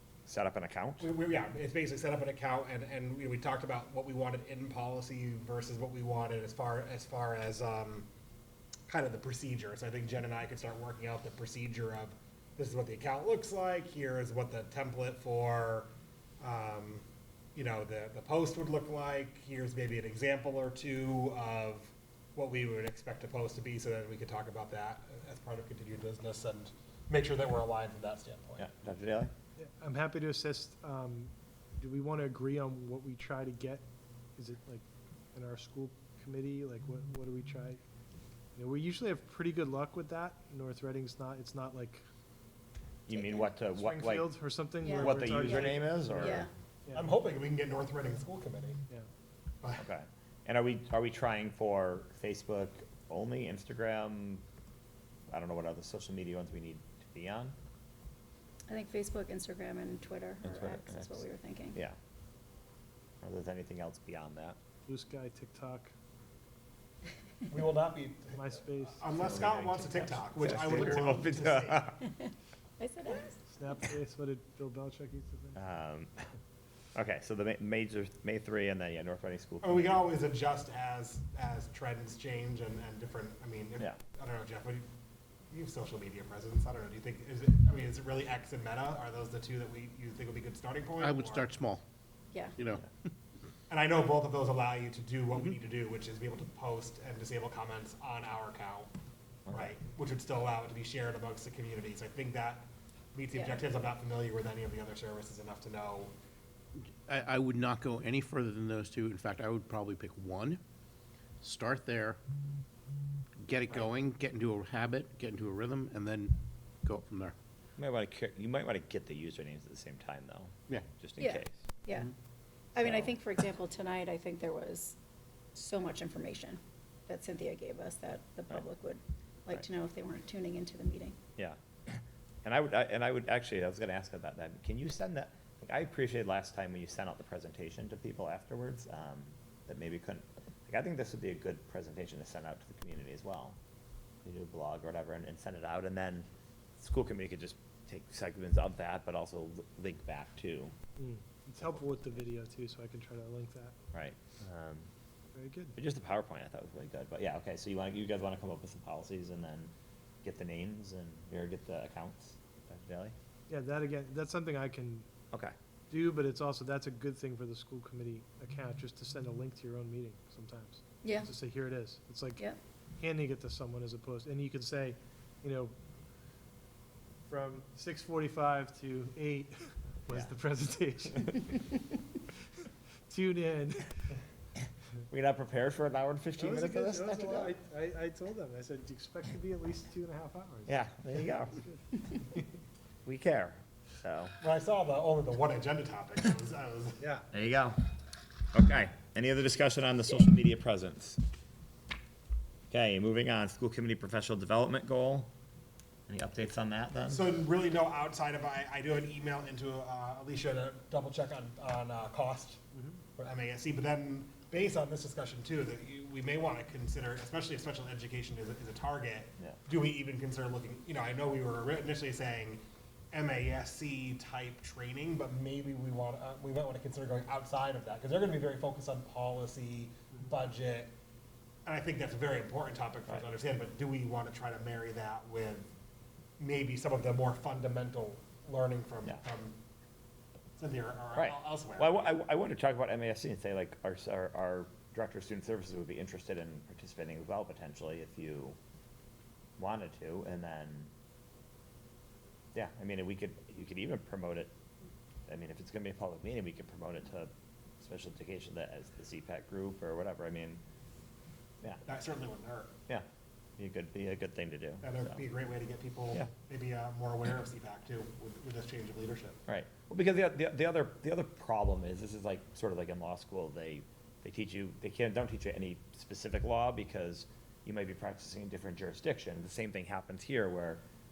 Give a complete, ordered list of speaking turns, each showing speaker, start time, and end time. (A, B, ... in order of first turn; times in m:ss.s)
0:00.3-0:01.1 A
0:01.0-0:08.1 B
0:08.9-0:15.9 B
0:16.4-0:17.0 B
0:17.6-0:28.7 B
0:28.6-0:29.3 A
0:29.6-0:33.8 C
0:34.4-0:37.8 C
0:38.6-0:42.0 C
0:43.1-0:44.3 A
0:43.1-0:43.5 D
0:43.6-0:47.1 C
0:44.8-0:46.5 D
0:45.0-0:46.4 A
0:47.0-0:48.8 B
0:49.8-0:54.4 A
0:55.3-0:57.5 A
0:58.7-1:01.8 D
1:00.4-1:02.0 A
1:03.2-1:04.6 A
1:04.9-1:05.9 C
1:07.5-1:11.9 B
1:08.3-1:09.3 C
1:09.1-1:12.0 A
1:12.8-1:13.4 D
1:13.5-1:15.6 C
1:15.5-1:16.1 A
1:16.9-1:20.0 A
1:19.6-1:24.8 B
1:25.5-1:31.4 B
1:31.0-1:31.8 E
1:32.6-1:33.1 E
1:33.7-1:38.9 B
1:39.5-1:39.7 A
1:39.5-1:46.1 B
1:43.3-1:43.6 D
1:46.8-1:50.6 E
1:51.4-1:52.2 E
1:53.4-1:57.3 E
1:57.8-2:01.6 A
2:01.2-2:02.1 D
2:02.8-2:05.0 D
2:02.8-2:03.2 A
2:05.6-2:11.2 D
2:11.4-2:23.6 A
2:24.2-2:26.3 A
2:26.8-2:30.7 A
2:31.0-2:33.7 C
2:31.6-2:32.2 A
2:33.9-2:34.9 A
2:35.3-2:35.8 C
2:35.8-2:39.7 A
2:40.2-2:43.1 A
2:43.5-2:45.1 C
2:45.9-2:52.5 C
2:51.0-2:51.3 D
2:53.0-2:55.8 C
2:57.3-3:01.6 C
3:03.1-3:03.9 C
3:05.1-3:07.5 A
3:06.4-3:10.8 C
3:10.7-3:11.6 A
3:13.1-3:14.3 A
3:14.4-3:17.0 B
3:17.0-3:17.2 C
3:17.3-3:17.8 A
3:18.5-3:21.2 A
3:22.7-3:25.3 A
3:26.1-3:27.2 A
3:27.1-3:32.6 B
3:33.2-3:42.6 B
3:43.1-3:50.9 B
3:51.6-3:55.7 B
3:56.4-3:59.6 B
4:00.6-4:02.2 B
4:01.2-4:08.6 A
4:09.6-4:10.9 A
4:12.5-4:14.5 A
4:15.3-4:20.6 A
4:21.8-4:22.7 B
4:23.6-4:25.2 A
4:24.8-4:29.4 B
4:29.5-4:40.8 A